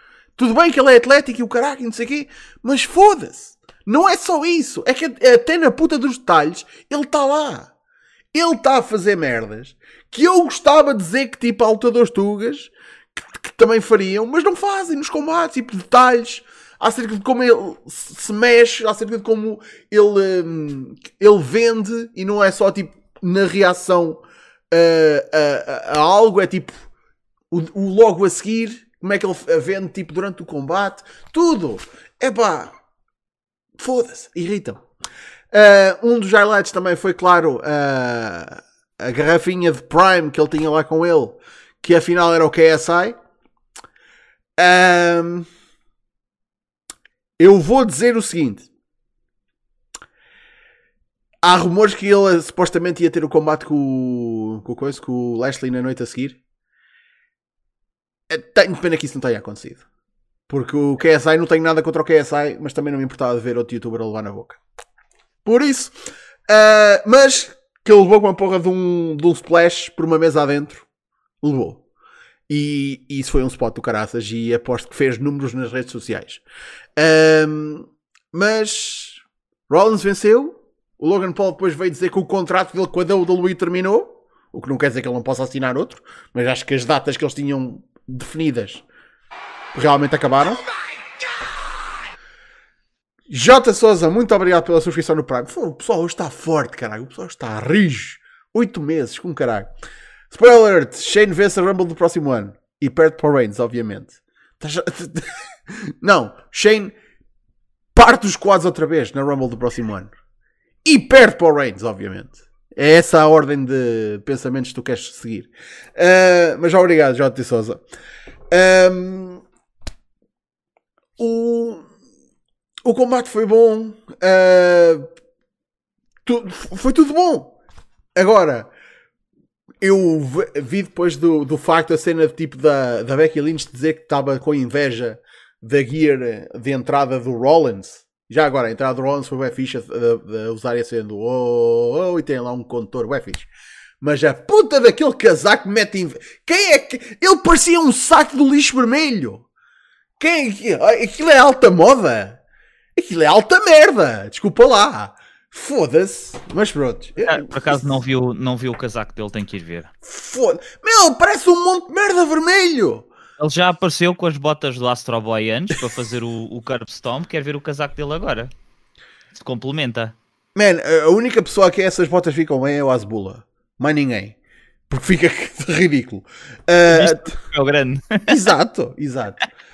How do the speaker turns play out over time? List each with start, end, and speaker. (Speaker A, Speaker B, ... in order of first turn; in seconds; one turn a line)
Speaker A: 0.4-7.7
Speaker A: 8.3-26.8
Speaker A: 27.5-32.7
Speaker A: 33.8-34.8
Speaker A: 35.5-43.1
Speaker A: 44.6-45.5
Speaker A: 47.4-48.7
Speaker A: 51.4-56.4
Speaker A: 58.3-59.8
Speaker A: 60.5-64.6
Speaker A: 65.4-65.9
Speaker A: 66.5-70.8
Speaker A: 71.4-71.8
Speaker A: 72.5-76.4
Speaker A: 77.0-88.8
Speaker A: 89.7-90.6
Speaker A: 93.3-99.7
Speaker A: 100.3-106.9
Speaker A: 107.9-110.1
Speaker A: 110.8-117.8
Speaker A: 118.5-119.4
Speaker A: 121.2-121.9
Speaker A: 122.8-125.1
Speaker A: 126.2-127.5
Speaker A: 128.1-128.7
Speaker A: 129.8-143.5
Speaker A: 144.0-149.4
Speaker A: 150.2-152.4
Speaker A: 152.9-157.9
Speaker B: 157.2-159.9
Speaker A: 160.0-163.1
Speaker B: 163.4-168.5
Speaker B: 169.3-170.1
Speaker A: 170.5-174.4
Speaker A: 174.9-177.3
Speaker B: 176.9-178.4
Speaker A: 178.3-179.4